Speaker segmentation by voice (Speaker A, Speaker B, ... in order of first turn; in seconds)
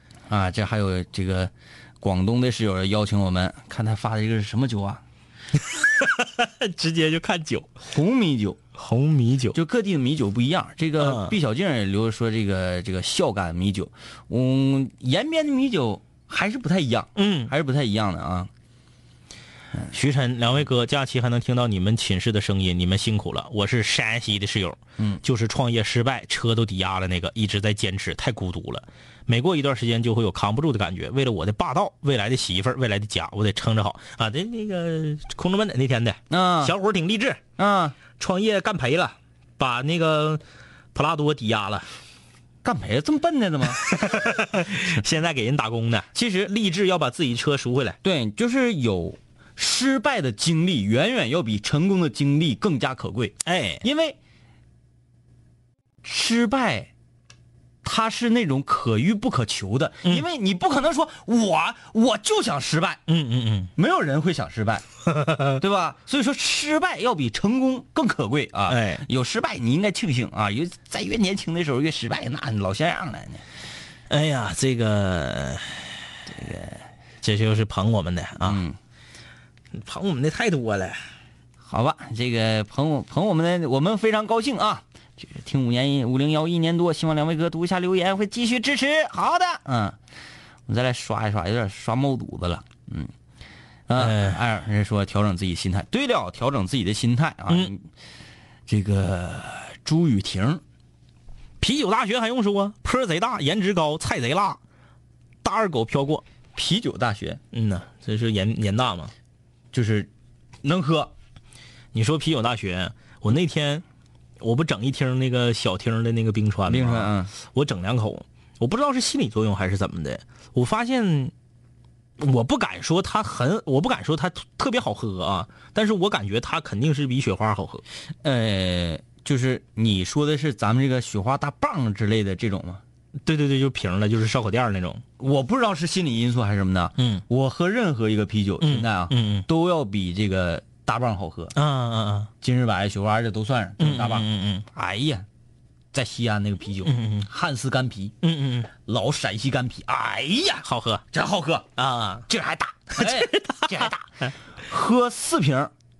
Speaker A: 0.3-5.0, 7.8-8.6, 9.5-18.5, 36.3-36.7, 37.6-38.0, 42.6-44.3, 46.1-46.5, 48.0-54.2, 56.0-56.9, 57.8-63.0, 63.8-64.8, 65.6-73.4, 76.3-76.8, 78.4-78.8, 81.6-90.0, 90.7-93.1, 93.9-97.9, 98.7-100.6, 106.5-107.4, 109.7-110.1, 110.6-111.1, 116.7-117.3, 128.2-132.8, 135.2-141.5, 142.4-145.2, 145.9-148.1, 148.8-151.7, 152.3-154.1, 154.7-155.7
Speaker B: 5.7-7.7, 8.8-9.6, 11.0-11.3, 17.1-17.5, 19.9-37.4, 38.2-40.4, 40.9-41.9, 43.8-48.0, 53.4-53.8, 63.1-63.7, 65.1-65.6, 68.7-69.0, 74.1-75.9, 77.2-78.6, 79.7-81.0, 94.0-94.4, 101.6-104.6, 105.4-106.2, 107.5-109.1, 111.9-113.8, 114.4-121.3, 122.2-127.8, 133.2-135.0, 137.0-137.2, 138.6-139.4, 141.5-142.3, 143.8-144.7, 146.8-147.3, 148.2-148.7, 150.6-151.0, 151.8-152.2, 152.9-153.9